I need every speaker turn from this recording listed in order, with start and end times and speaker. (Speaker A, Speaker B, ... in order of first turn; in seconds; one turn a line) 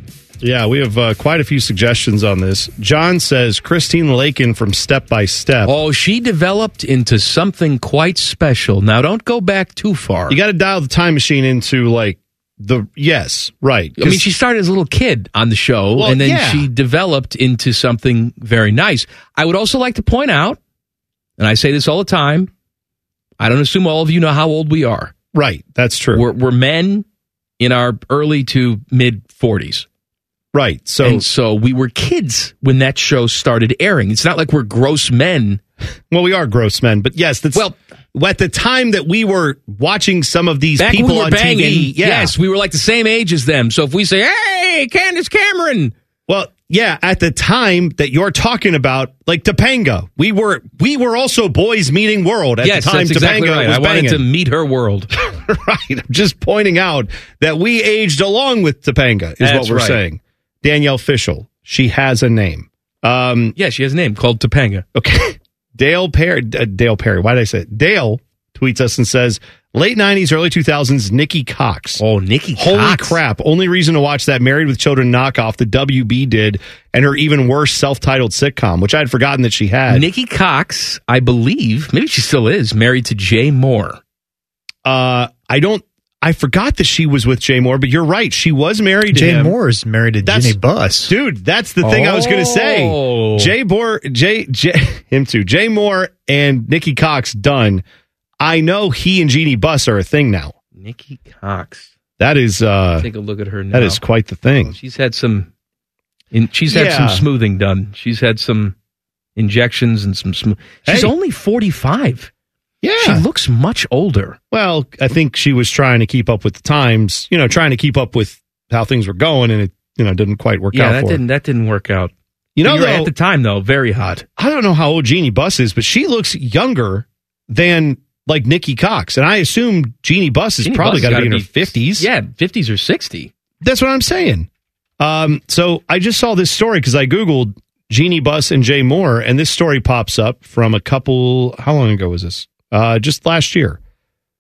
Speaker A: 0.4-5.7
Speaker B: 5.6-10.4
Speaker A: 10.3-14.2
Speaker B: 14.0-20.6
Speaker A: 15.9-16.7
Speaker B: 21.4-22.5
Speaker B: 23.4-25.1
Speaker A: 25.3-26.2
Speaker B: 26.1-27.0
Speaker B: 27.6-29.9
Speaker A: 30.5-31.2
Speaker B: 31.0-35.6
Speaker A: 36.1-42.3
Speaker B: 40.8-45.9
Speaker A: 46.3-54.2
Speaker B: 52.6-55.1
Speaker A: 55.2-63.5
Speaker B: 59.4-60.0
Speaker B: 63.5-64.8
Speaker A: 64.9-72.0
Speaker B: 72.0-73.2
Speaker A: 72.6-80.1
Speaker B: 79.9-84.0
Speaker A: 84.8-89.5
Speaker C: 89.1-91.1
Speaker A: 90.2-97.8
Speaker B: 91.8-93.5
Speaker A: 98.4-100.5
Speaker B: 100.8-101.9
Speaker A: 102.2-103.1
Speaker B: 103.0-104.0
Speaker A: 103.7-104.8
Speaker B: 104.7-105.5
Speaker B: 106.3-108.7
Speaker A: 106.7-107.2
Speaker B: 109.3-112.3
Speaker A: 110.8-111.1
Speaker A: 112.8-113.2
Speaker B: 113.0-114.4
Speaker A: 114.5-121.2
Speaker B: 120.7-122.1
Speaker A: 122.5-123.1
Speaker B: 122.6-124.2
Speaker A: 124.4-132.1
Speaker B: 130.6-133.3
Speaker A: 133.6-134.5
Speaker A: 135.0-143.8